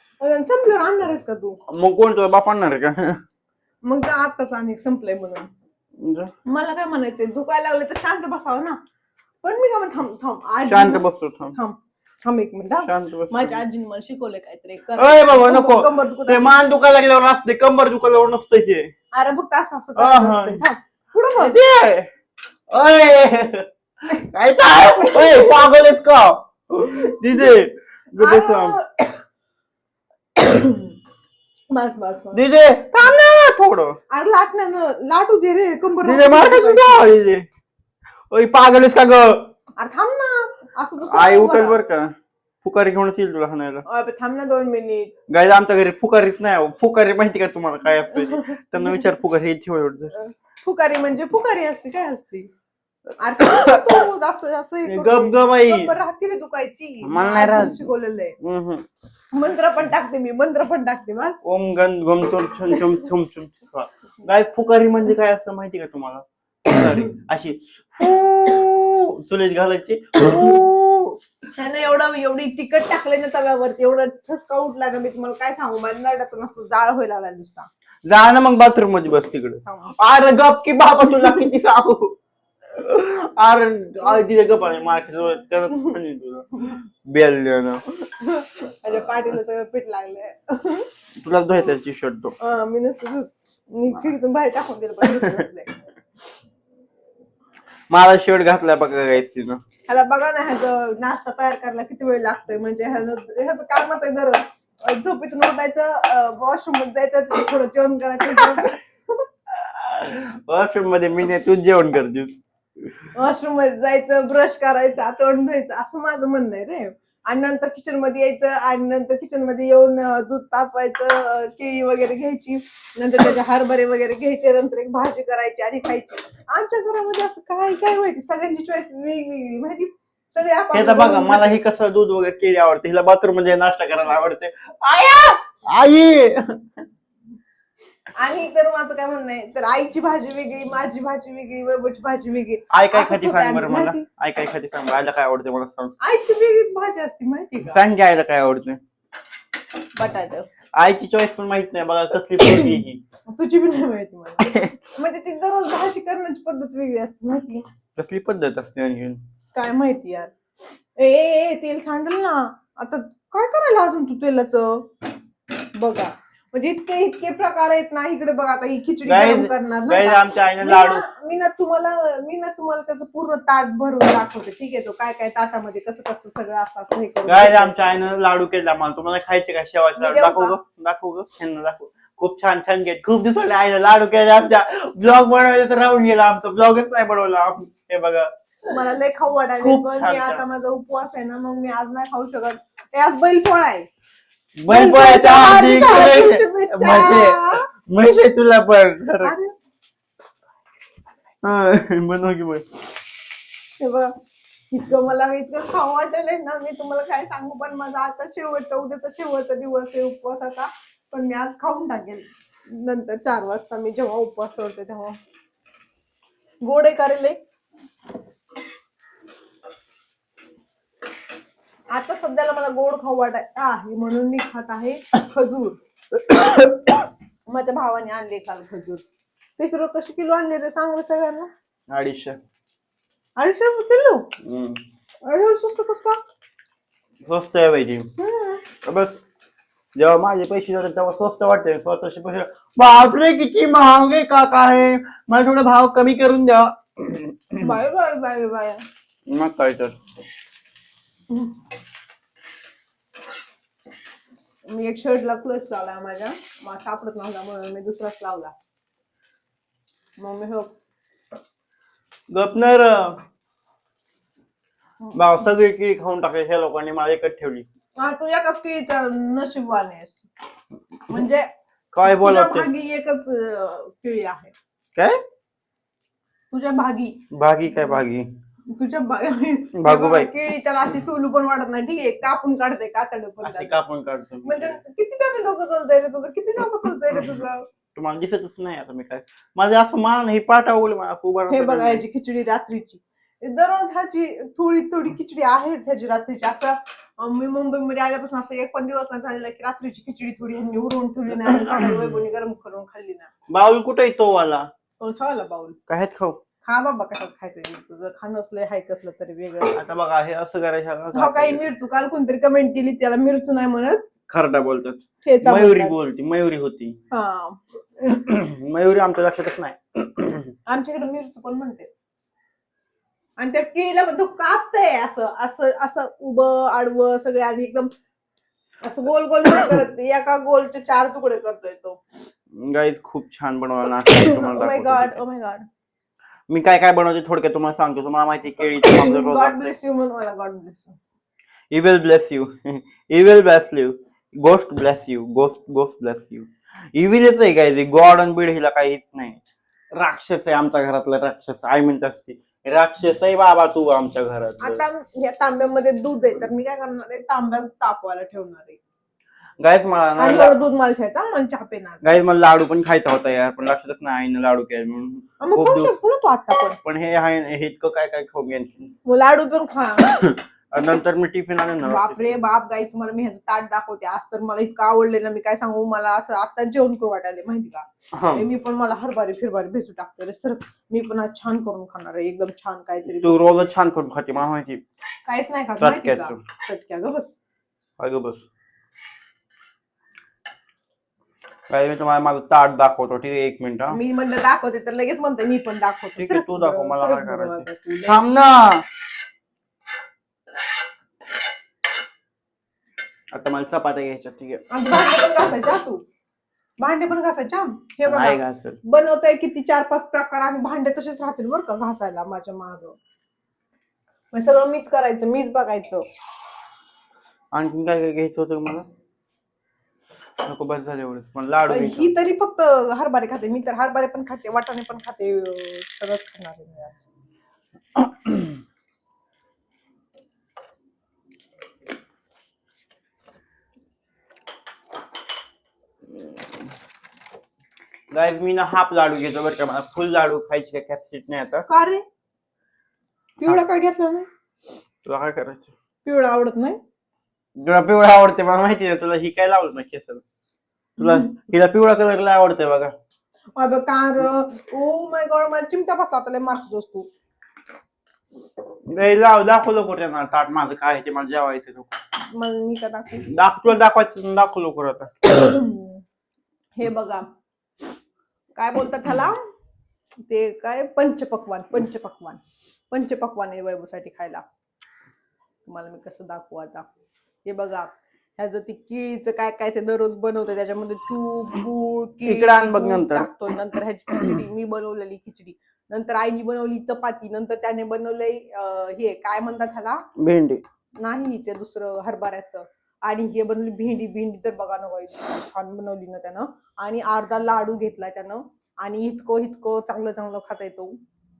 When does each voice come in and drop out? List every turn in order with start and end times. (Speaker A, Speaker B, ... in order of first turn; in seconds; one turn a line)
Speaker A: 0.2-1.6
Speaker B: 1.7-3.2
Speaker A: 3.8-5.5
Speaker B: 6.0-6.3
Speaker A: 6.5-8.8
Speaker A: 9.4-16.5
Speaker B: 10.7-11.6
Speaker B: 12.8-13.6
Speaker B: 15.0-18.9
Speaker A: 19.1-21.6
Speaker B: 20.0-20.6
Speaker B: 21.4-22.1
Speaker B: 22.7-28.8
Speaker A: 25.0-25.6
Speaker A: 28.2-29.2
Speaker A: 30.4-30.9
Speaker A: 31.7-32.4
Speaker B: 32.3-34.0
Speaker A: 34.1-37.1
Speaker B: 36.0-37.5
Speaker B: 38.3-39.5
Speaker A: 39.8-41.8
Speaker B: 41.1-43.8
Speaker A: 43.9-45.1
Speaker B: 45.3-50.1
Speaker A: 48.2-49.0
Speaker A: 50.1-52.5
Speaker A: 53.2-58.4
Speaker B: 53.4-54.0
Speaker B: 54.9-55.9
Speaker B: 57.0-57.9
Speaker B: 58.4-58.9
Speaker A: 59.3-61.4
Speaker B: 61.4-71.2
Speaker A: 71.6-77.7
Speaker B: 78.0-82.2
Speaker A: 79.7-80.0
Speaker B: 82.7-87.8
Speaker A: 88.2-90.9
Speaker B: 91.2-92.3
Speaker A: 92.4-95.7
Speaker B: 95.0-95.4
Speaker B: 97.9-99.6
Speaker A: 99.9-109.2
Speaker B: 108.4-108.7
Speaker B: 109.5-113.1
Speaker A: 113.2-131.6
Speaker B: 130.7-136.6
Speaker A: 138.2-144.1
Speaker B: 142.7-145.9
Speaker A: 146.0-147.8
Speaker B: 147.6-148.8
Speaker A: 149.9-150.5
Speaker B: 150.8-153.0
Speaker A: 153.3-157.7
Speaker B: 158.0-159.2
Speaker A: 159.5-164.9
Speaker A: 165.7-177.8
Speaker B: 169.1-171.1
Speaker B: 177.3-188.7
Speaker A: 180.0-180.6
Speaker A: 188.7-193.9
Speaker B: 189.6-190.4
Speaker B: 194.6-199.3
Speaker A: 194.7-197.6
Speaker A: 199.2-199.5
Speaker B: 201.4-202.7
Speaker A: 203.8-204.2
Speaker A: 204.7-215.2
Speaker A: 216.6-217.4
Speaker A: 221.9-225.8
Speaker A: 227.5-229.0
Speaker A: 229.6-231.5
Speaker B: 231.9-232.4
Speaker A: 233.4-234.3
Speaker B: 234.4-234.8
Speaker A: 235.2-236.2
Speaker B: 237.3-238.1
Speaker A: 238.2-238.7
Speaker B: 238.8-239.2
Speaker B: 239.9-247.8
Speaker A: 247.6-248.8
Speaker B: 249.3-249.9
Speaker A: 254.7-258.5
Speaker A: 260.2-260.7
Speaker B: 262.3-263.2
Speaker B: 265.1-267.7
Speaker A: 268.0-270.3
Speaker A: 271.1-271.5
Speaker B: 271.9-272.7
Speaker A: 272.0-274.5
Speaker A: 276.5-277.2
Speaker B: 277.3-278.3
Speaker A: 278.7-283.8
Speaker B: 279.8-280.3
Speaker B: 283.4-284.8
Speaker A: 284.4-287.7
Speaker B: 287.9-292.0
Speaker A: 291.5-303.3
Speaker B: 301.4-302.2
Speaker B: 303.5-304.7
Speaker A: 305.0-305.8
Speaker B: 305.9-306.4
Speaker A: 306.6-309.8
Speaker B: 309.8-311.6
Speaker A: 311.1-314.0
Speaker B: 314.3-317.0
Speaker A: 315.2-315.9
Speaker A: 317.1-317.6
Speaker B: 318.0-320.5
Speaker A: 320.7-321.9
Speaker A: 323.4-327.9
Speaker A: 328.8-332.0
Speaker B: 332.6-335.2
Speaker A: 334.1-335.7
Speaker B: 336.5-339.7
Speaker A: 338.8-341.0
Speaker B: 341.7-349.4
Speaker B: 350.0-354.8
Speaker A: 354.6-358.8
Speaker B: 359.6-360.6
Speaker A: 360.2-362.0
Speaker B: 362.0-365.9
Speaker A: 365.4-366.8
Speaker B: 366.8-368.9
Speaker A: 369.1-370.3
Speaker B: 370.2-372.3
Speaker A: 371.8-383.4
Speaker B: 378.1-378.5
Speaker B: 383.1-384.8
Speaker A: 385.3-387.4
Speaker B: 385.8-386.4
Speaker B: 388.0-388.4
Speaker B: 391.7-394.0
Speaker A: 393.9-398.2
Speaker B: 396.2-398.9
Speaker B: 403.3-404.6
Speaker A: 404.7-406.0
Speaker A: 406.8-413.0
Speaker B: 408.1-408.8
Speaker A: 414.3-416.1
Speaker B: 417.5-418.9
Speaker B: 420.4-422.1
Speaker A: 421.7-427.1
Speaker B: 428.0-428.3
Speaker B: 438.1-441.7
Speaker A: 441.7-442.1
Speaker A: 443.4-444.3
Speaker B: 445.1-445.7
Speaker A: 446.1-446.8
Speaker B: 447.6-450.2
Speaker B: 451.0-452.9
Speaker A: 451.0-451.3
Speaker A: 453.6-457.1
Speaker B: 458.9-461.9
Speaker A: 462.3-463.3
Speaker B: 463.3-465.2
Speaker A: 465.2-466.0
Speaker A: 466.8-467.3
Speaker A: 468.6-469.4
Speaker A: 470.3-474.4
Speaker A: 475.7-476.9
Speaker A: 477.4-490.1
Speaker B: 482.2-483.3
Speaker B: 490.2-490.6
Speaker A: 491.0-501.0